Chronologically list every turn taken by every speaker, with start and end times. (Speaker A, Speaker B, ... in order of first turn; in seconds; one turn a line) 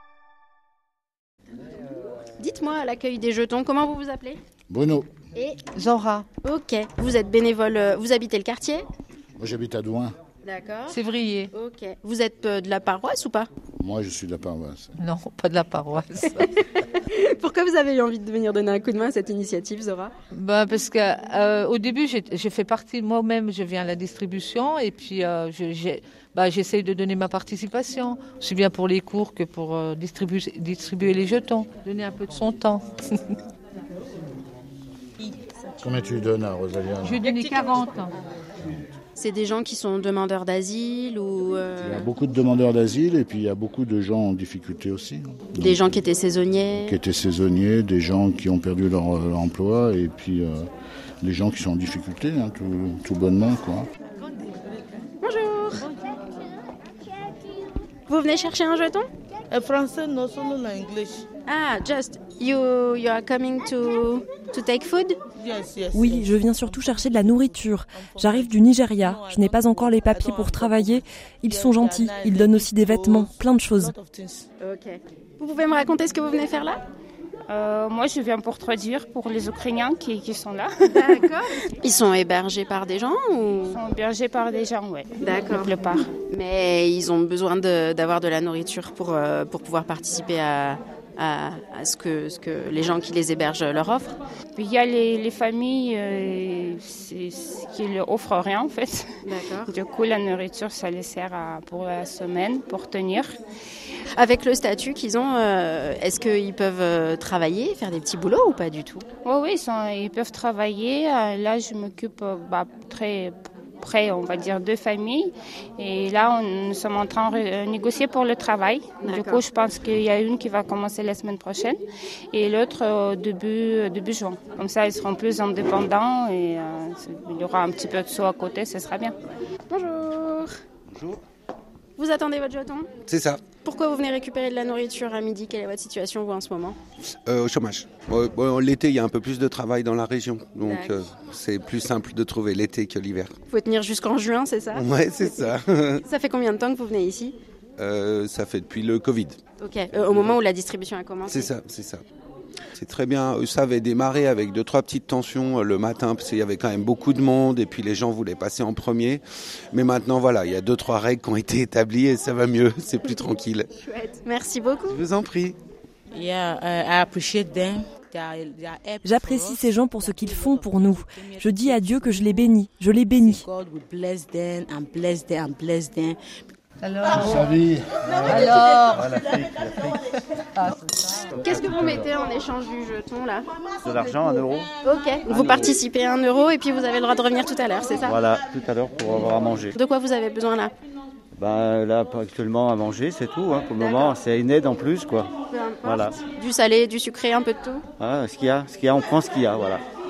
Speaker A: 2.4-4.4
Speaker B: 4.7-5.1
Speaker A: 5.3-5.6
Speaker C: 5.8-6.3
Speaker A: 6.4-8.9
Speaker B: 9.4-10.2
Speaker A: 10.4-11.0
Speaker C: 10.9-11.5
Speaker A: 11.5-13.5
Speaker B: 13.8-14.9
Speaker C: 15.0-16.5
Speaker A: 16.8-20.1
Speaker C: 20.3-33.4
Speaker D: 35.2-35.7
Speaker B: 35.8-37.2
Speaker C: 37.0-38.1
Speaker A: 39.2-42.1
Speaker B: 41.8-46.0
Speaker A: 45.6-47.0
Speaker B: 46.8-50.7
Speaker B: 51.2-53.9
Speaker D: 54.2-54.6
Speaker A: 55.2-55.9
Speaker A: 58.1-59.1
Speaker D: 59.5-61.3
Speaker A: 61.5-65.2
Speaker D: 65.3-74.5
Speaker E: 65.9-73.9
Speaker A: 74.6-76.8
Speaker F: 77.5-81.3
Speaker A: 80.9-83.8
Speaker F: 83.6-86.1
Speaker A: 85.2-94.2
Speaker F: 94.6-99.1
Speaker A: 99.2-99.7
Speaker F: 99.7-103.3
Speaker A: 104.2-109.0
Speaker F: 109.2-121.8
Speaker A: 119.0-119.4
Speaker F: 122.3-129.2
Speaker A: 129.7-130.5
Speaker A: 132.0-132.9
Speaker G: 133.1-133.4
Speaker A: 133.5-136.8
Speaker G: 137.3-143.3
Speaker A: 140.6-141.1
Speaker A: 143.5-147.4
Speaker G: 144.7-146.0
Speaker G: 147.8-149.4
Speaker A: 149.6-151.5
Speaker G: 151.3-152.0
Speaker G: 152.8-163.7
Speaker A: 163.8-165.0
Speaker G: 164.9-165.6
Speaker D: 166.1-172.5
Speaker E: 169.0-173.5
Speaker D: 173.1-176.4
Speaker C: 176.8-177.6
Speaker B: 177.2-178.5
Speaker D: 178.1-178.8
Speaker C: 178.2-179.1
Speaker C: 180.6-181.3
Speaker A: 181.3-183.5
Speaker B: 181.4-182.0
Speaker H: 183.8-184.6
Speaker A: 184.8-188.2
Speaker H: 185.3-185.6
Speaker H: 188.1-189.7
Speaker A: 189.7-190.7
Speaker H: 191.4-195.3
Speaker A: 193.8-194.2
Speaker A: 195.4-197.8
Speaker H: 195.9-196.1
Speaker H: 198.0-199.8